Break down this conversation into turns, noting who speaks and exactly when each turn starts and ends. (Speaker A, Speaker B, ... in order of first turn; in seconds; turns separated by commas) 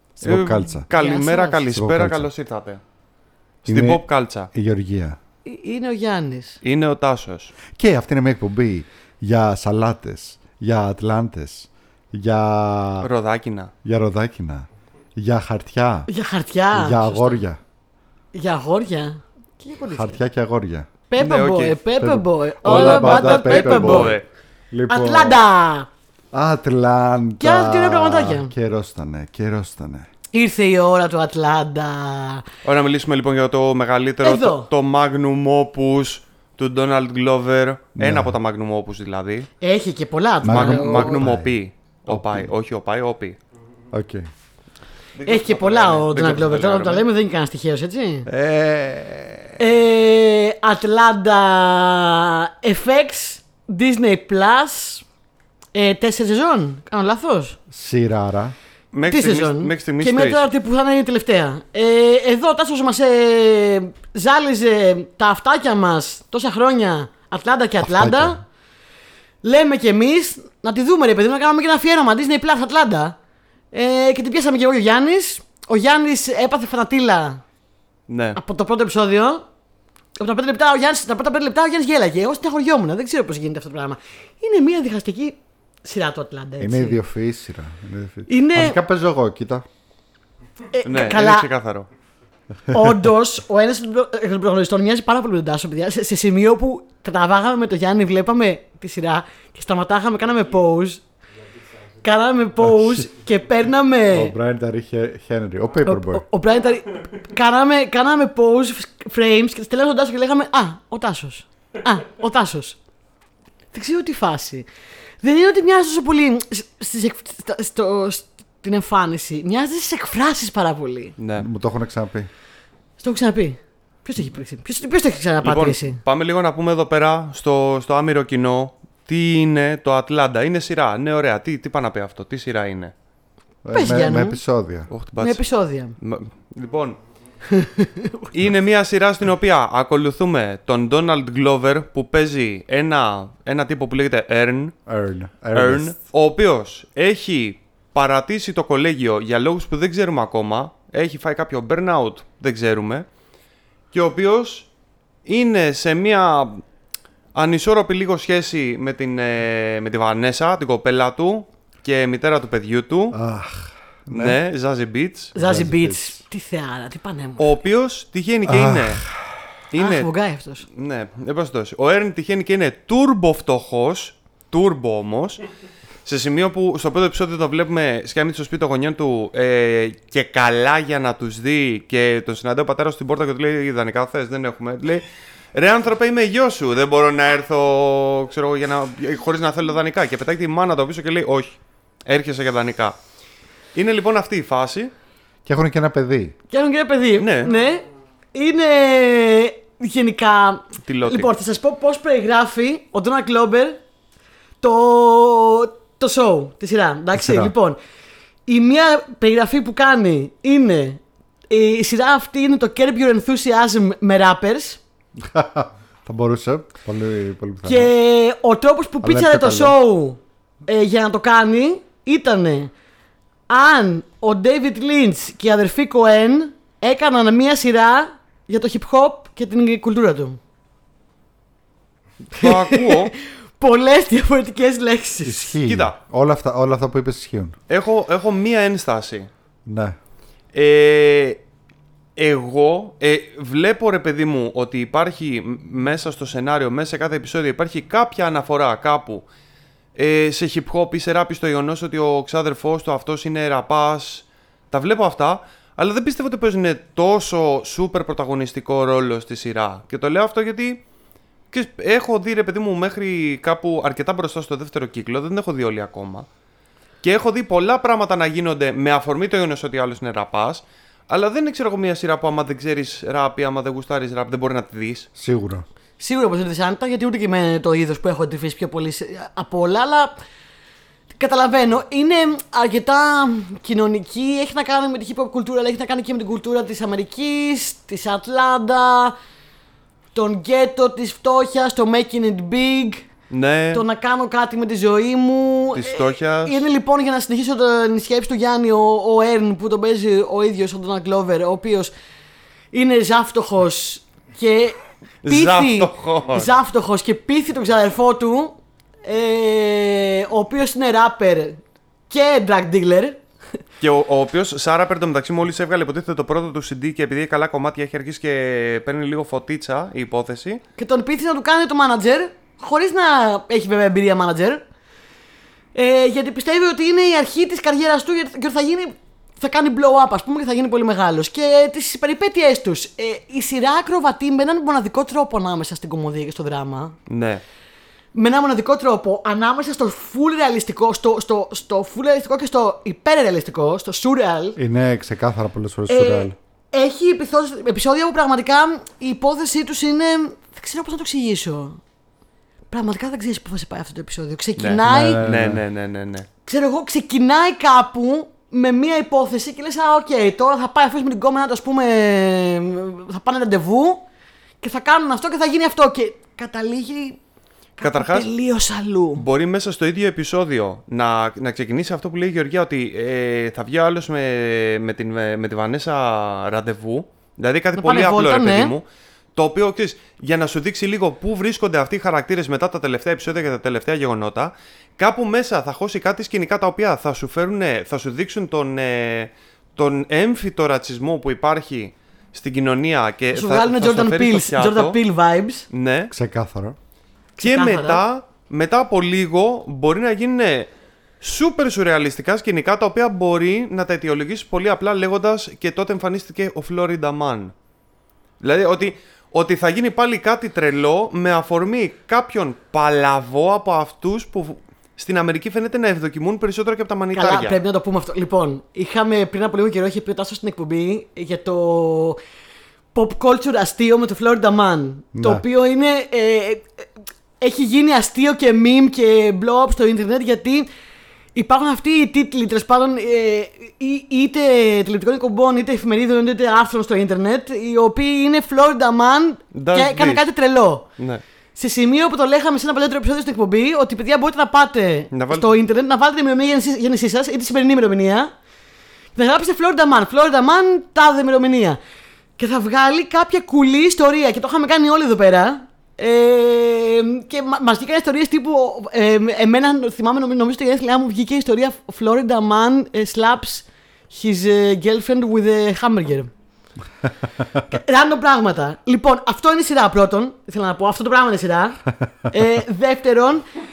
Speaker A: 0.2-0.9, Speaker B: 0.2-2.8, Speaker C: 0.9-1.6, Speaker A: 1.7-2.3, Speaker B: 3.6-4.5, Speaker A: 3.7-5.2, Speaker C: 5.5-6.6, Speaker B: 6.6-7.5, Speaker A: 7.7-13.1, Speaker B: 13.0-13.7, Speaker A: 13.8-16.1, Speaker C: 16.1-17.4, Speaker A: 16.7-17.6, Speaker C: 18.3-20.2, Speaker A: 19.9-20.9, Speaker C: 21.1-24.2, Speaker B: 21.2-21.8, Speaker A: 22.0-24.2, Speaker B: 22.6-24.2, Speaker A: 24.7-25.4, Speaker C: 24.9-25.9, Speaker A: 26.3-30.1, Speaker C: 27.4-28.5, Speaker C: 30.3-32.5, Speaker B: 32.6-39.5, Speaker C: 34.2-34.7, Speaker A: 38.0-38.4, Speaker C: 39.6-41.2, Speaker A: 40.4-41.6, Speaker B: 40.5-43.4, Speaker A: 42.1-42.5, Speaker A: 43.9-44.3, Speaker B: 45.2-47.1, Speaker C: 45.2-48.3, Speaker A: 48.3-49.6, Speaker C: 49.6-55.0, Speaker C: 55.7-57.6, Speaker A: 57.7-58.5, Speaker B: 58.9-60.5, Speaker C: 59.1-68.4, Speaker A: 67.8-68.4, Speaker C: 69.4-73.2, Speaker C: 73.7-77.4, Speaker B: 78.1-78.4, Speaker C: 78.3-79.5, Speaker C: 80.2-87.0, Speaker A: 86.6-89.7, Speaker C: 88.3-88.8, Speaker C: 90.7-91.5, Speaker B: 90.8-91.9, Speaker C: 92.7-101.0, Speaker C: 102.0-104.3, Speaker A: 102.7-103.0, Speaker A: 104.1-106.2, Speaker C: 105.9-112.8, Speaker C: 113.7-114.7, Speaker C: 115.2-121.2, Speaker B: 121.2-121.5, Speaker A: 121.4-122.3, Speaker C: 123.0-126.0, Speaker B: 125.4-132.9, Speaker A: 133.6-134.9, Speaker C: 133.7-134.4, Speaker B: 134.9-135.4, Speaker C: 135.2-136.0, Speaker B: 136.0-137.0, Speaker C: 137.5-138.3, Speaker B: 138.3-144.7, Speaker A: 144.9-145.9, Speaker B: 145.5-153.1, Speaker B: 153.9-154.7, Speaker B: 155.3-156.6, Speaker B: 157.3-163.2, Speaker A: 163.1-164.4, Speaker B: 164.1-165.3, Speaker A: 165.3-166.2, Speaker C: 165.3-167.5, Speaker B: 167.4-169.0, Speaker A: 168.5-169.4, Speaker B: 169.7-170.1, Speaker C: 169.8-170.7, Speaker B: 170.7-175.4, Speaker B: 176.1-192.9, Speaker B: 193.8-194.9, Speaker A: 195.5-196.3, Speaker C: 196.5-203.8, Speaker B: 197.2-197.5, Speaker B: 200.8-201.3, Speaker C: 204.6-207.8, Speaker A: 207.1-207.5, Speaker C: 208.5-214.8, Speaker A: 215.2-217.9, Speaker C: 217.6-222.7, Speaker A: 219.0-219.8, Speaker C: 223.5-230.4, Speaker B: 232.3-233.1, Speaker C: 232.3-235.6, Speaker A: 235.2-237.6, Speaker B: 235.6-236.0, Speaker B: 237.7-239.3, Speaker A: 239.7-240.0, Speaker B: 240.5-241.4, Speaker B: 242.2-249.3, Speaker B: 249.9-260.8, Speaker B: 261.5-266.3, Speaker B: 267.0-275.1, Speaker A: 275.1-275.6, Speaker C: 276.0-280.1, Speaker C: 281.1-289.1, Speaker C: 290.1-293.1, Speaker B: 293.3-293.8, Speaker C: 293.7-301.9, Speaker B: 295.7-296.6, Speaker C: 302.7-313.2, Speaker B: 305.2-306.5, Speaker B: 313.8-320.6, Speaker C: 320.8-324.6, Speaker C: 325.7-337.0, Speaker B: 337.1-337.4, Speaker C: 338.1-344.6, Speaker A: 344.6-346.4, Speaker C: 345.9-351.8, Speaker C: 352.7-355.2, Speaker B: 354.6-356.3, Speaker A: 354.8-355.6, Speaker C: 356.5-364.1, Speaker C: 364.6-367.2, Speaker C: 367.8-369.2, Speaker B: 367.8-368.3, Speaker B: 369.1-378.8, Speaker C: 377.8-378.8, Speaker B: 379.4-395.0, Speaker C: 393.3-395.7, Speaker B: 395.7-396.1, Speaker A: 396.1-396.8, Speaker C: 397.4-398.0, Speaker B: 397.4-400.7, Speaker B: 401.2-407.5, Speaker B: 408.4-417.6, Speaker C: 417.1-422.2, Speaker C: 422.9-426.9, Speaker A: 425.1-425.4, Speaker C: 427.4-430.7, Speaker C: 431.4-440.9, Speaker B: 439.5-440.2, Speaker B: 441.0-441.2, Speaker C: 441.6-448.3, Speaker B: 445.1-445.5, Speaker C: 449.1-451.8, Speaker C: 452.4-466.3, Speaker C: 467.7-473.4